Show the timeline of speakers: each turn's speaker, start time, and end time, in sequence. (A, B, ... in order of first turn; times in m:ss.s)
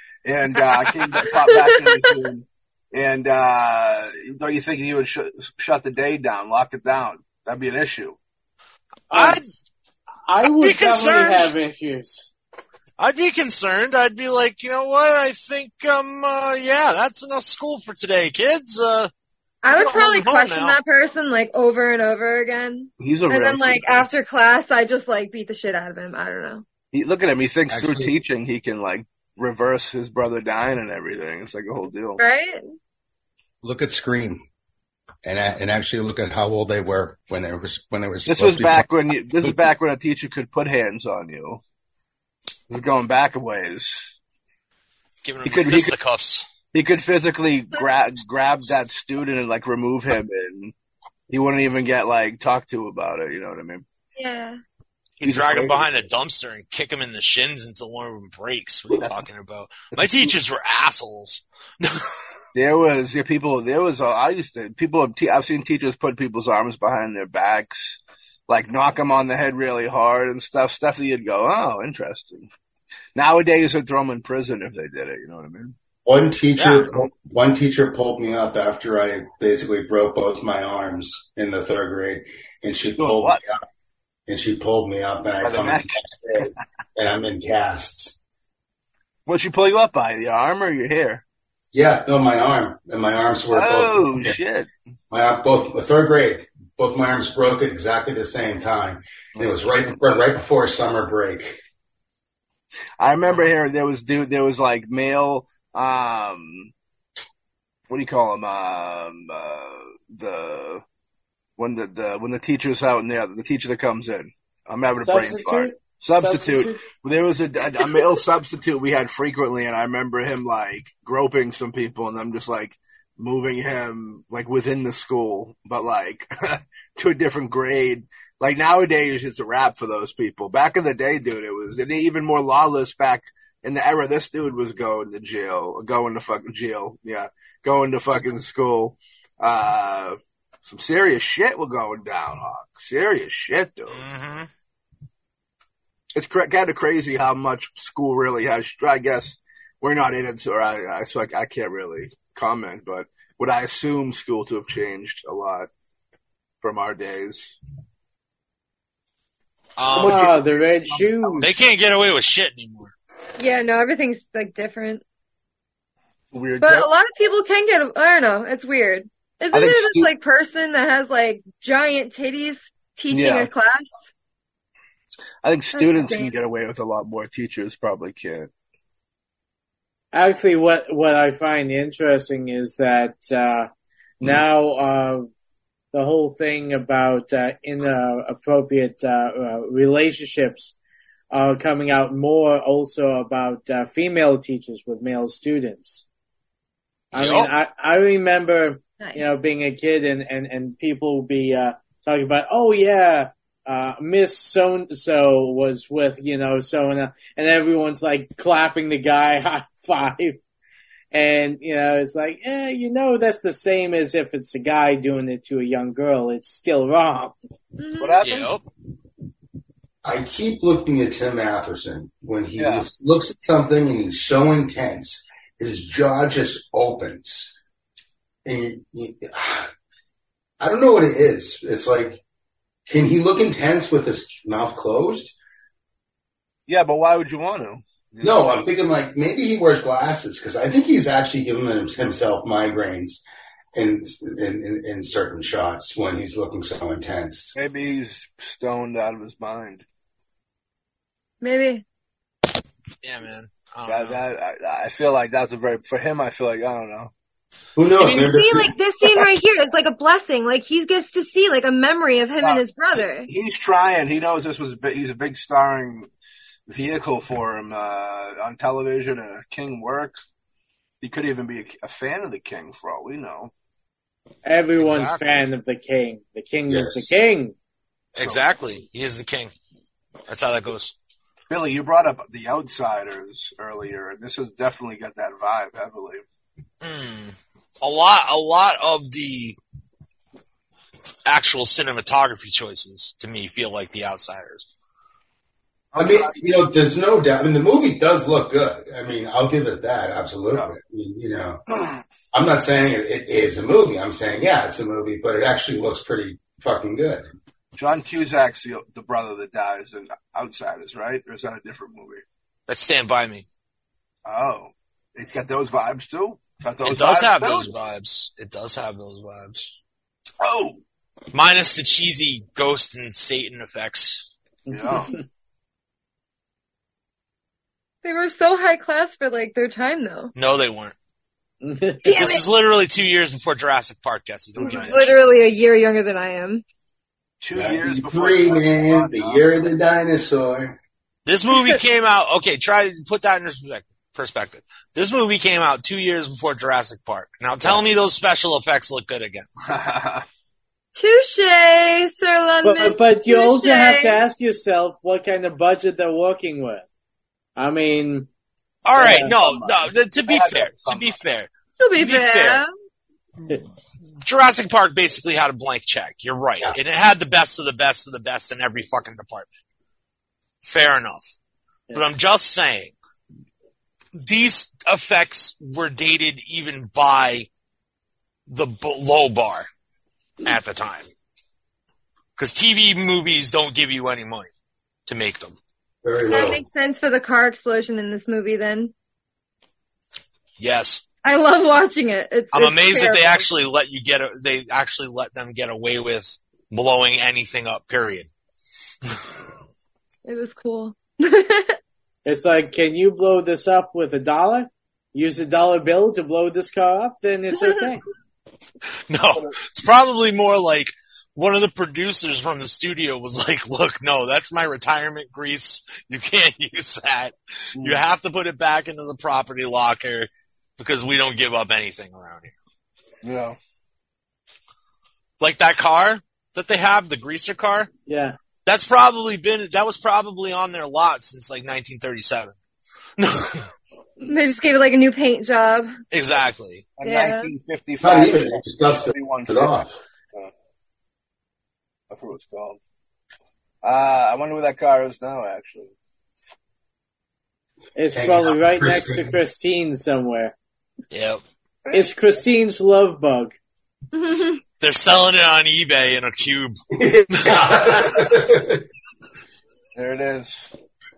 0:00.2-0:08.2 A
0:01.2-0:02.2 B
0:09.1-0:09.4 C
0:09.1-0:09.4 D
0:10.3-0:12.3 C
0:10.4-0:11.5 D
0:13.0-0:19.1 D
0:19.6-0:26.6 B
0:19.7-0:20.8 D
0:23.0-0:24.1 A
0:26.9-0:32.2 A
0:27.7-0:28.1 E
0:32.2-0:32.6 B
0:33.6-0:34.4 E
0:35.2-0:38.9 E
0:38.3-0:41.6 A
0:42.7-0:44.2 A
0:45.2-0:46.5 D
0:45.4-0:45.9 A
0:46.7-0:50.7 A
0:51.3-0:53.8 A
0:54.2-0:54.6 B
0:55.2-1:02.1 D
0:55.2-0:55.9 A
0:58.9-0:59.3 A
0:59.9-1:00.4 A
1:02.5-1:12.5 A
1:13.2-1:15.8 A
1:16.0-1:23.5 E
1:16.6-1:16.9 D
1:23.0-1:23.4 A
1:24.3-1:28.2 E
1:25.4-1:26.5 A
1:29.3-1:31.2 A
1:31.7-1:34.4 E
1:33.5-1:34.7 A
1:35.1-1:41.6 E
1:39.4-1:39.8 A
1:43.0-1:46.7 A
1:47.9-1:50.8 A
1:51.6-2:24.0 A
1:55.0-1:56.8 C
2:23.9-2:24.5 D
2:26.1-2:35.7 A
2:36.6-2:37.6 A
2:39.8-2:40.3 D
2:39.9-2:41.4 A
2:39.9-2:41.5 C
2:41.4-2:42.9 D
2:43.4-2:45.0 B
2:46.3-2:46.9 A
2:46.6-2:54.1 B
2:49.5-2:50.1 A
2:53.1-2:53.5 A
2:55.4-2:58.5 A
2:55.7-2:56.4 B
3:00.1-3:03.7 C
3:04.2-3:05.3 C
3:05.9-3:10.8 C
3:11.3-3:16.1 C
3:17.1-3:17.5 D
3:17.1-3:30.4 C
3:19.0-3:19.2 B
3:31.1-3:37.4 C
3:37.8-3:38.3 B
3:38.0-3:38.5 A
3:38.2-3:38.6 D
3:40.0-3:47.5 E
3:42.6-3:42.8 A
3:48.4-3:49.7 E
3:50.6-3:52.2 E
3:52.9-3:55.4 E
3:56.7-3:58.6 A
3:58.2-4:03.2 E
4:03.8-4:07.6 E
4:07.6-4:09.8 A
4:11.4-4:11.8 B
4:13.0-4:14.2 D
4:13.9-4:17.1 A
4:17.8-4:18.8 E
4:18.0-4:23.3 B
4:22.4-4:26.1 A
4:26.7-4:30.1 A
4:31.0-4:33.5 A
4:34.4-4:37.6 C
4:34.8-4:35.2 D
4:36.7-4:37.1 E
4:38.2-4:39.5 D
4:38.2-4:38.4 A
4:40.3-4:40.9 D
4:41.5-4:46.2 A
4:46.8-4:49.6 D
4:51.3-4:54.7 D
4:55.9-4:56.4 A
4:56.0-5:01.6 E
5:02.3-5:07.3 E
5:07.8-5:12.2 A
5:12.7-5:13.5 D
5:14.3-5:17.7 A
5:16.8-5:19.7 D
5:20.4-5:20.8 A
5:21.3-5:24.3 D
5:24.7-5:25.1 A
5:24.7-5:25.2 C
5:28.0-5:30.3 B
5:30.4-5:31.0 D
5:31.6-5:32.2 C
5:32.0-5:32.4 B
5:32.1-5:35.2 D
5:34.6-5:36.6 B
5:34.6-5:35.1 A
5:37.4-5:39.5 A
5:37.6-5:40.8 E
5:41.3-5:49.5 D
5:49.7-5:50.3 A
5:51.0-5:54.2 B
5:52.6-5:56.9 C
5:57.6-5:58.3 C
5:58.8-6:02.6 D
5:59.0-6:01.2 A
5:59.0-5:59.3 C
6:01.8-6:02.7 B
6:04.2-6:09.5 D
6:10.6-6:11.2 D
6:11.9-6:12.9 D
6:14.2-6:17.5 D
6:18.5-6:19.7 D
6:20.4-6:21.1 D
6:22.4-6:24.5 D
6:25.1-6:25.6 D
6:26.0-6:26.6 E
6:26.3-6:28.9 B
6:30.6-6:31.0 D
6:31.2-6:33.4 B
6:32.5-6:38.3 D
6:40.3-6:41.8 B
6:42.2-6:48.0 C
6:49.1-7:02.5 D
6:57.8-6:58.0 A
7:03.2-7:03.6 A
7:05.4-7:07.9 D
7:08.1-7:08.4 C
7:08.7-7:12.6 D
7:13.2-7:13.7 D
7:14.3-7:15.9 B
7:16.1-7:16.9 D
7:17.0-7:19.8 A
7:17.0-7:17.5 B
7:18.0-7:20.0 E
7:22.1-7:22.8 A
7:23.8-7:25.9 A
7:28.0-7:30.5 C
7:28.1-7:29.4 E
7:31.1-7:31.4 D
7:31.9-7:33.6 C
7:34.1-7:34.6 B
7:34.8-7:36.8 D
7:37.0-7:38.8 E
7:37.3-7:38.2 D
7:40.0-7:40.7 A